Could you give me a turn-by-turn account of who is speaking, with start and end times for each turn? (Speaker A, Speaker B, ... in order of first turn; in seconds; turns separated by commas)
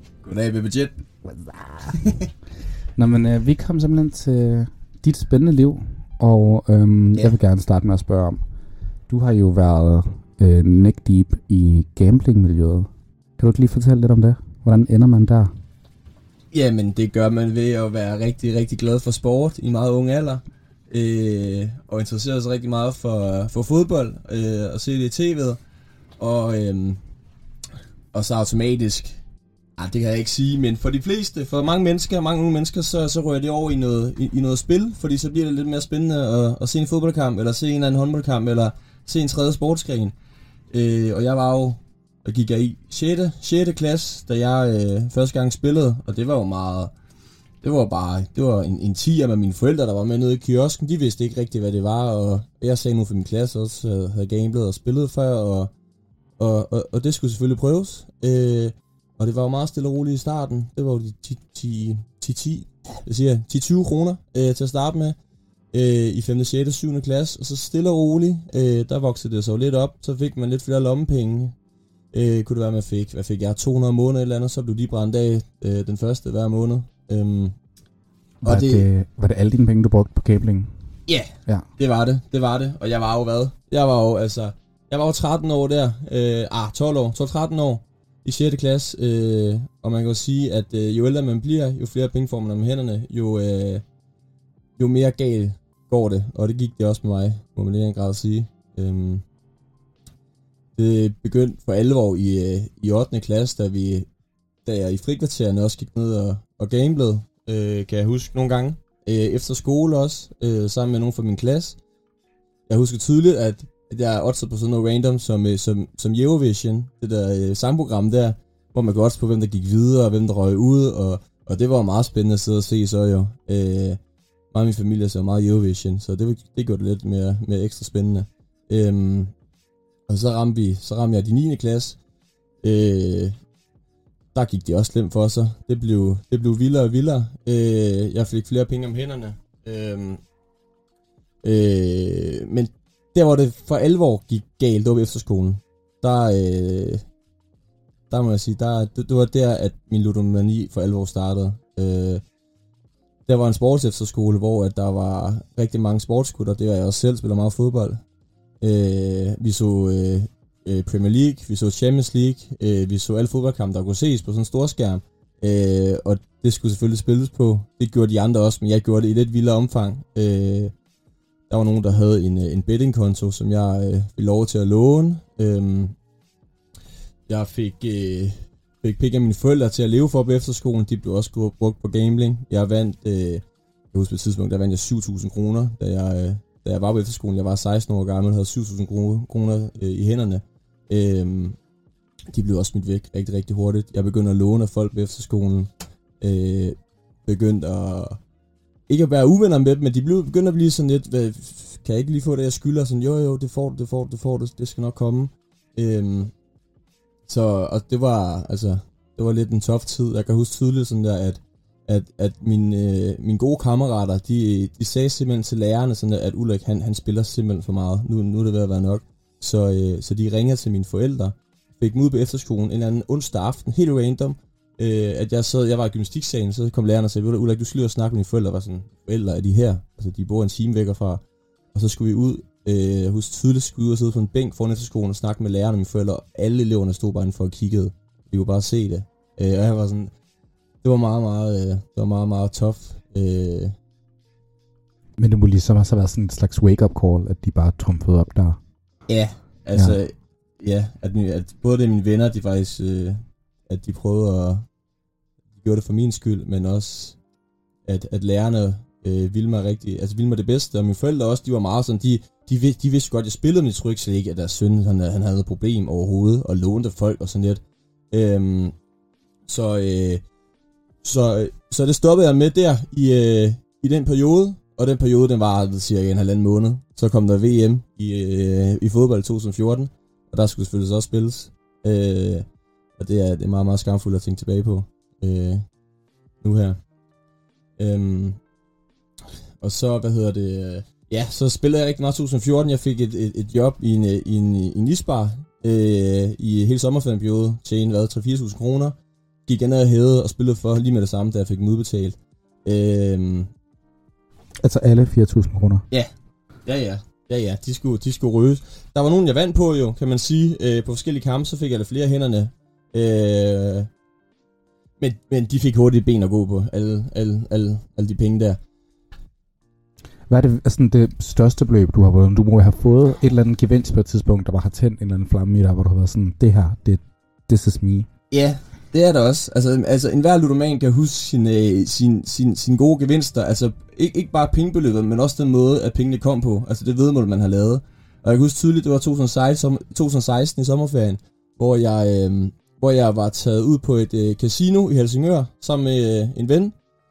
Speaker A: 0.2-1.0, Speaker A: 1.9-2.3, Speaker B: 3.0-8.4, Speaker B: 9.1-15.5, Speaker A: 16.5-25.6, Speaker A: 26.2-27.0, Speaker A: 28.1-29.2, Speaker A: 29.8-40.1, Speaker A: 40.7-46.9, Speaker A: 47.6-55.7, Speaker A: 56.4-65.1, Speaker A: 65.7-71.5, Speaker A: 72.1-77.5, Speaker B: 78.4-80.8, Speaker A: 78.4-78.8, Speaker A: 81.1-93.8, Speaker A: 94.8-99.2, Speaker A: 100.8-104.1, Speaker A: 104.6-111.8, Speaker A: 112.7-124.0, Speaker A: 124.5-129.3, Speaker A: 130.1-132.0, Speaker A: 132.6-133.3, Speaker A: 134.3-140.2, Speaker A: 141.4-147.0, Speaker A: 148.1-152.2, Speaker A: 153.3-158.0, Speaker A: 158.6-170.7, Speaker A: 171.5-175.9, Speaker A: 177.3-191.6, Speaker A: 192.3-198.2, Speaker A: 198.9-206.3, Speaker A: 207.3-231.2, Speaker A: 231.7-240.1, Speaker A: 240.8-243.7, Speaker B: 245.2-248.6, Speaker A: 249.1-254.6, Speaker B: 249.7-250.0, Speaker A: 255.6-257.2, Speaker A: 257.9-268.7, Speaker A: 269.5-270.2, Speaker A: 271.0-282.4, Speaker A: 283.0-285.6, Speaker A: 286.4-286.8, Speaker A: 287.8-288.4, Speaker A: 289.6-298.9, Speaker A: 299.4-303.5, Speaker B: 304.6-305.8, Speaker A: 306.6-313.9, Speaker A: 315.0-318.6, Speaker B: 320.3-328.1, Speaker A: 328.3-346.7